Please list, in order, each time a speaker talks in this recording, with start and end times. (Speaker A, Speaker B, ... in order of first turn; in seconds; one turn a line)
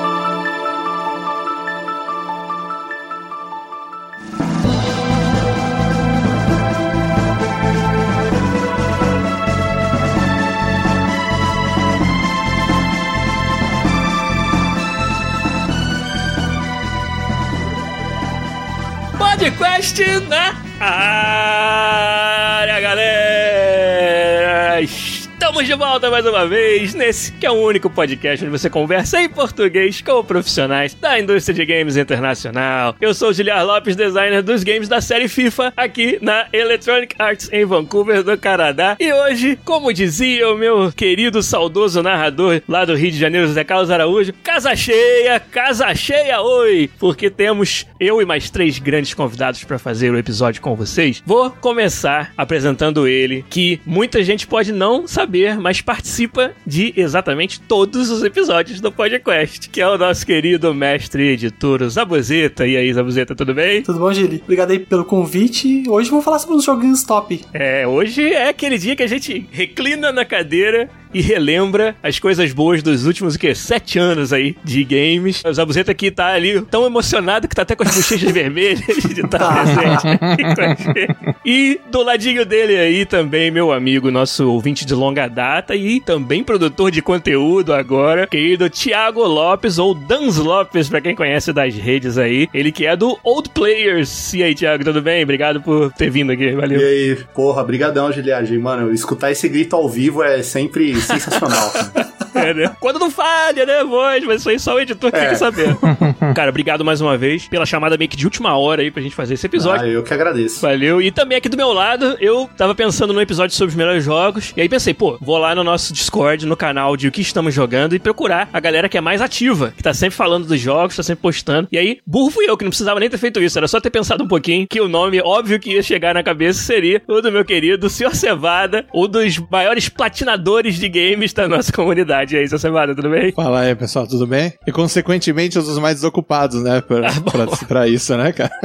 Speaker A: 19.1-63.9
Speaker B: 63.9-67.4
Speaker A: 67.5-96.9
Speaker B: 79.4-80.1
Speaker C: 79.7-81.3
Speaker D: 96.7-101.9
Speaker A: 101.7-109.8
Speaker D: 105.1-105.8
Speaker C: 105.8-106.3
Speaker D: 109.6-110.6
Speaker A: 110.6-133.4
Speaker C: 133.4-138.5
Speaker A: 137.0-137.6